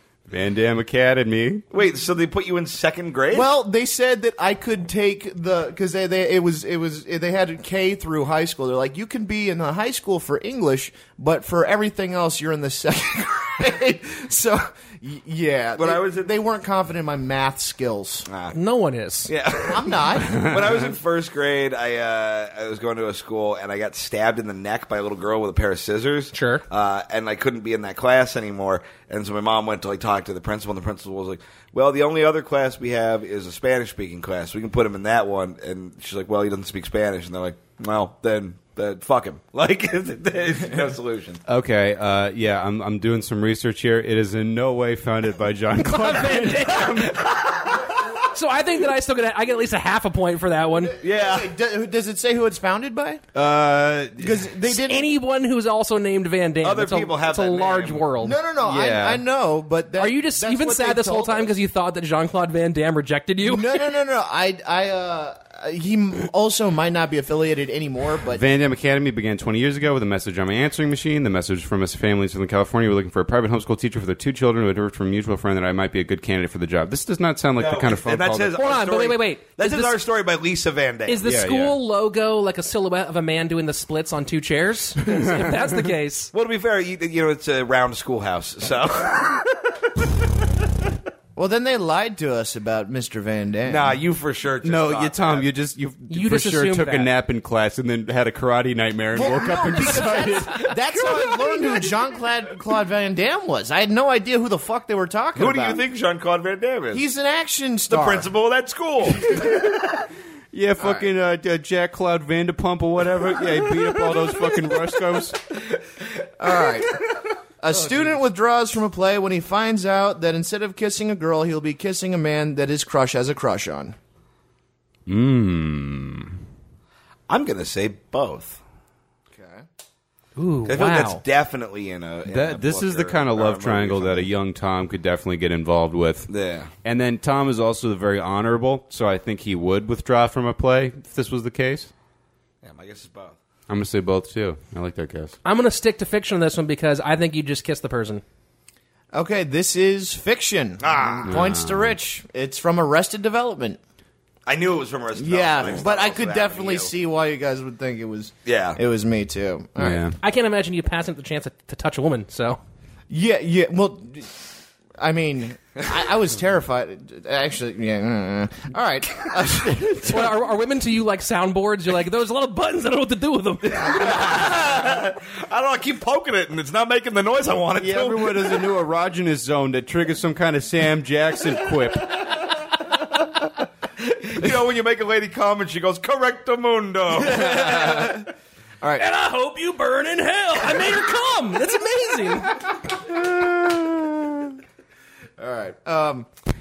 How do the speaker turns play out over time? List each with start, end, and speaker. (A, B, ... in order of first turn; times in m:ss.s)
0:00.3-0:01.6 A
0:01.7-0:03.5 B
0:03.3-0:18.3 C
0:15.8-0:16.3 B
0:18.3-0:18.6 B
0:18.5-0:19.3 D
0:19.2-0:41.4 B
0:19.6-0:20.5 C
0:20.4-0:20.8 A
0:26.3-0:26.6 D
0:41.5-0:47.1 A
0:45.8-0:47.1 D
0:46.8-0:47.9 B
0:48.3-0:51.0 D
0:51.0-0:51.5 B
0:51.0-0:53.2 C
0:53.3-0:54.4 A
0:54.2-0:55.1 C
0:54.7-0:58.4 D
0:56.6-0:58.0 B
0:58.2-1:01.5 C
0:58.6-0:59.2 A
1:00.0-1:03.8 D
1:03.4-1:08.4 C
1:08.3-1:18.6 A
1:17.6-1:21.2 B
1:18.5-1:20.0 D
1:21.1-1:26.3 D
1:21.2-1:21.8 A
1:25.1-1:25.5 A
1:26.3-1:29.7 B
1:31.4-1:34.0 C
1:33.6-1:35.4 B
1:34.6-1:40.8 A
1:36.1-1:37.1 D
1:39.1-1:45.8 C
1:45.4-1:47.0 B
1:46.9-1:48.3 C
1:47.9-1:49.3 B
1:49.3-1:49.6 A
1:50.5-1:55.4 A
1:50.8-1:51.0 C
1:56.4-2:04.0 C
2:05.1-2:06.3 A
2:07.3-2:08.6 B
2:09.3-2:09.6 C
2:10.4-2:11.2 D
2:10.6-2:14.3 B
2:12.3-2:16.3 A
2:16.3-2:16.7 B
2:16.8-2:21.9 A
2:22.6-2:23.4 B
2:23.7-2:25.3 A
2:25.4-2:28.2 D
2:29.1-2:33.8 C
2:30.8-2:31.5 B
2:31.3-2:31.9 A
2:34.4-2:36.9 B
2:35.1-2:40.0 C
2:38.4-2:38.8 B
2:39.8-2:40.2 A
2:40.2-2:42.6 D
2:43.1-2:44.4 C
2:45.0-2:50.4 C
2:50.1-2:54.7 D
2:53.9-2:58.6 B
2:57.8-3:02.4 A
3:04.0-3:07.5 B
3:07.1-3:08.3 C
3:08.8-3:09.0 C
3:09.0-3:12.6 D
3:15.4-3:16.3 C